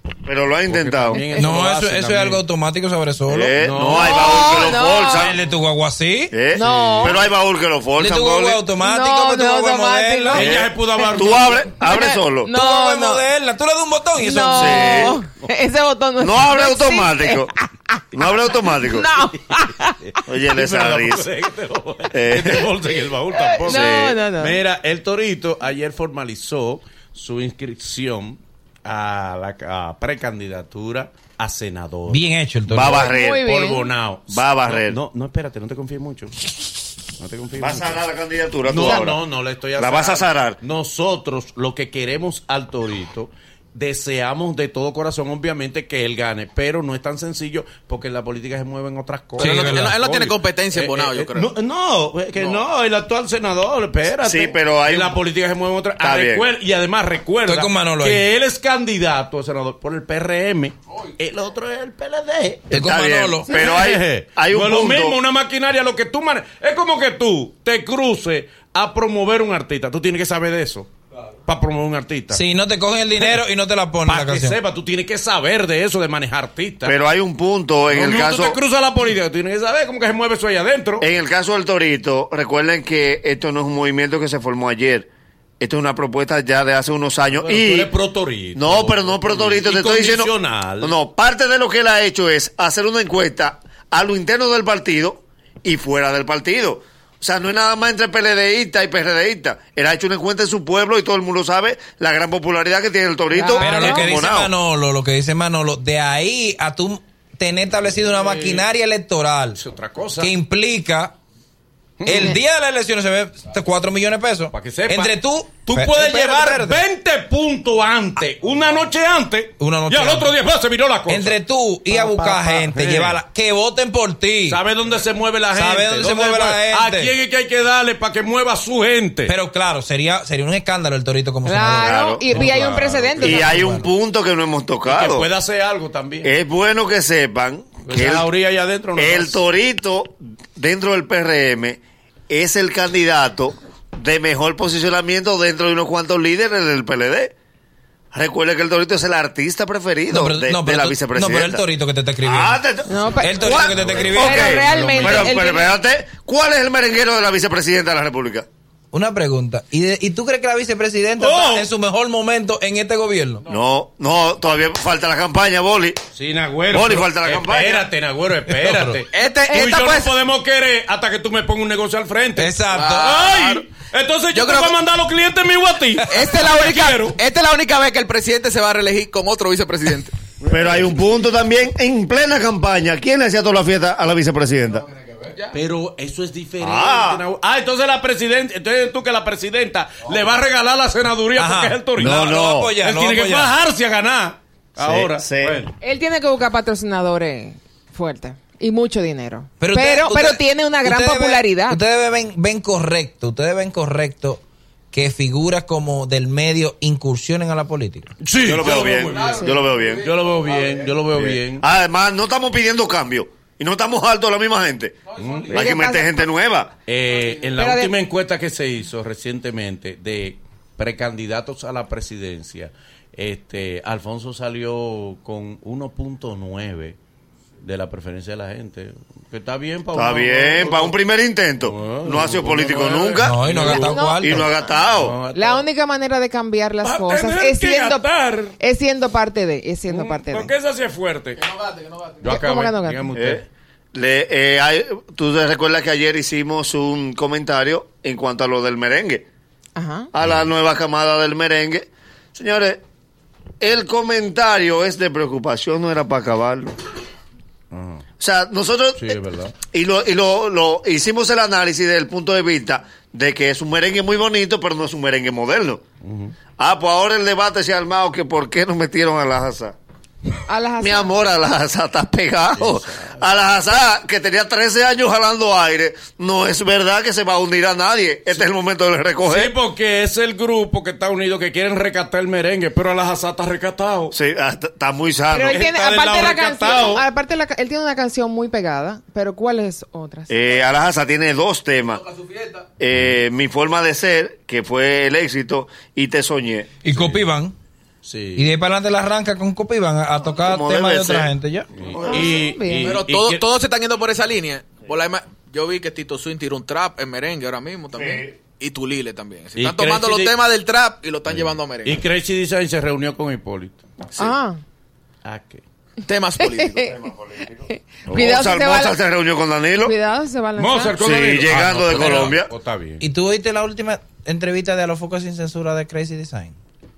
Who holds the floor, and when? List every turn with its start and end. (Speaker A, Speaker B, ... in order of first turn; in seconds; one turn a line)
Speaker A: 0.2-1.2
Speaker B: 0.7-2.4
Speaker C: 1.4-3.6
Speaker A: 3.3-5.4
Speaker B: 3.6-4.2
Speaker D: 3.9-5.3
Speaker C: 5.1-6.3
Speaker A: 6.3-8.6
Speaker D: 6.5-7.2
Speaker B: 6.5-7.2
Speaker C: 8.0-10.7
Speaker D: 8.8-13.3
Speaker B: 10.3-11.7
Speaker A: 11.1-12.5
Speaker C: 12.4-15.0
Speaker D: 14.2-20.1
Speaker A: 14.5-15.2
Speaker A: 16.2-17.5
Speaker A: 18.1-19.1
Speaker B: 19.2-32.2
Speaker A: 20.2-21.3
Speaker A: 22.1-22.7
Speaker D: 23.3-24.6
Speaker A: 23.6-24.2
Speaker C: 32.1-33.0
Speaker A: 32.7-33.5
Speaker B: 32.9-36.5
Speaker D: 32.9-33.9
Speaker A: 34.3-35.0
Speaker B: 37.2-38.1
Speaker A: 37.6-39.2
Speaker B: 38.6-62.8
Speaker A: 39.8-40.6
Speaker C: 49.4-50.0
Speaker E: 49.4-51.5
Speaker E: 52.4-52.6
Speaker A: 54.2-55.2
Speaker A: 56.0-56.5
Speaker C: 57.5-58.2
Speaker C: 62.7-63.6
Speaker A: 62.7-65.2
Speaker B: 63.5-70.9
Speaker B: 71.5-72.4
Speaker C: 72.3-74.6
Speaker B: 73.1-73.4
Speaker B: 74.0-76.9
Speaker A: 76.8-78.6
Speaker B: 77.9-81.1
Speaker A: 81.0-85.1
Speaker A: 85.6-87.9
Speaker B: 87.3-91.0
Speaker A: 88.5-104.5
Speaker D: 103.3-104.1
Speaker C: 103.6-109.6
Speaker B: 108.1-108.7
Speaker B: 109.5-110.3
Speaker C: 110.2-111.2
Speaker B: 112.0-112.3
Speaker C: 112.0-116.8
Speaker B: 114.5-123.2
Speaker C: 119.6-120.3
Speaker C: 121.1-124.6
Speaker B: 124.5-129.3
Speaker C: 125.5-127.1
Speaker C: 129.2-133.9
Speaker D: 131.4-133.6
Speaker A: 131.8-132.3
Speaker B: 132.3-133.3
Speaker A: 133.2-135.3
Speaker B: 134.8-136.3
Speaker A: 136.2-138.3
Speaker B: 137.8-139.4
Speaker A: 138.9-141.8
Speaker A: 142.3-147.3
Speaker A: 148.1-151.6
Speaker C: 150.1-152.6
Speaker A: 152.2-158.4
Speaker D: 152.9-155.7
Speaker C: 153.2-154.6
Speaker B: 154.5-155.2
Speaker C: 158.9-163.4
Speaker B: 161.2-161.7
Speaker A: 163.5-166.0
Speaker B: 166.1-177.2
Speaker A: 166.7-167.9
Speaker C: 168.5-169.0
Speaker E: 169.1-170.1
Speaker C: 172.3-173.3
Speaker E: 172.7-173.6
Speaker E: 174.3-174.8
Speaker E: 176.1-180.1
Speaker B: 180.4-181.0
Speaker A: 180.5-184.8
Speaker E: 184.9-185.6
Speaker B: 185.5-192.2
Speaker A: 186.6-187.2
Speaker C: 191.3-193.6
Speaker A: 192.0-192.7
Speaker B: 192.8-195.7
Speaker A: 194.8-195.6
Speaker D: 195.8-201.8
Speaker C: 199.6-208.1
Speaker B: 208.2-211.6
Speaker A: 208.4-210.1
Speaker D: 209.3-209.7
Speaker A: 211.1-216.7
Speaker B: 215.2-215.6
Speaker E: 215.2-215.6
Speaker D: 215.5-216.3
Speaker B: 216.8-227.0
Speaker D: 217.6-217.9
Speaker B: 227.6-231.0
Speaker A: 229.9-235.2
Speaker B: 231.6-233.9
Speaker C: 233.2-234.5
Speaker D: 233.6-234.7
Speaker B: 234.8-235.7
Speaker D: 235.3-238.1
Speaker B: 236.8-238.5
Speaker D: 238.6-240.5
Speaker B: 239.9-241.5
Speaker E: 241.6-242.1
Speaker B: 242.2-243.4
Speaker D: 242.2-243.1
Speaker A: 243.1-249.2
Speaker D: 249.7-250.1
Speaker A: 250.1-252.8
Speaker A: 253.6-256.7
Speaker B: 257.7-258.0
Speaker A: 258.2-259.2
Speaker B: 258.9-259.5
Speaker A: 259.7-265.8
Speaker B: 266.0-266.4
Speaker A: 266.6-269.8
Speaker D: 270.5-271.2
Speaker A: 270.8-279.5
Speaker B: 272.5-273.4
Speaker B: 279.2-284.1
Speaker A: 284.1-285.6
Speaker D: 285.3-290.4
Speaker B: 285.5-287.0
Speaker A: 290.3-292.0
Speaker A: 292.8-296.7
Speaker B: 292.9-293.2
Speaker C: 296.8-297.5
Speaker B: 296.9-297.2
Speaker B: 298.0-298.5
Speaker C: 298.3-301.7
Speaker A: 300.4-301.3
Speaker B: 301.7-303.4
Speaker A: 301.9-302.4
Speaker D: 302.1-303.0
Speaker E: 302.8-312.1
Speaker A: 307.9-308.3
Speaker B: 309.6-310.4
Speaker B: 311.2-313.9
Speaker D: 314.2-314.6
Speaker B: 315.2-315.6
Speaker E: 316.0-316.9
Speaker D: 316.4-317.0
Speaker A: 316.9-319.9
Speaker D: 317.7-319.0
Speaker D: 319.8-321.0
Speaker B: 320.6-323.1
Speaker A: 321.0-322.5
Speaker C: 321.9-322.3
Speaker C: 323.0-326.5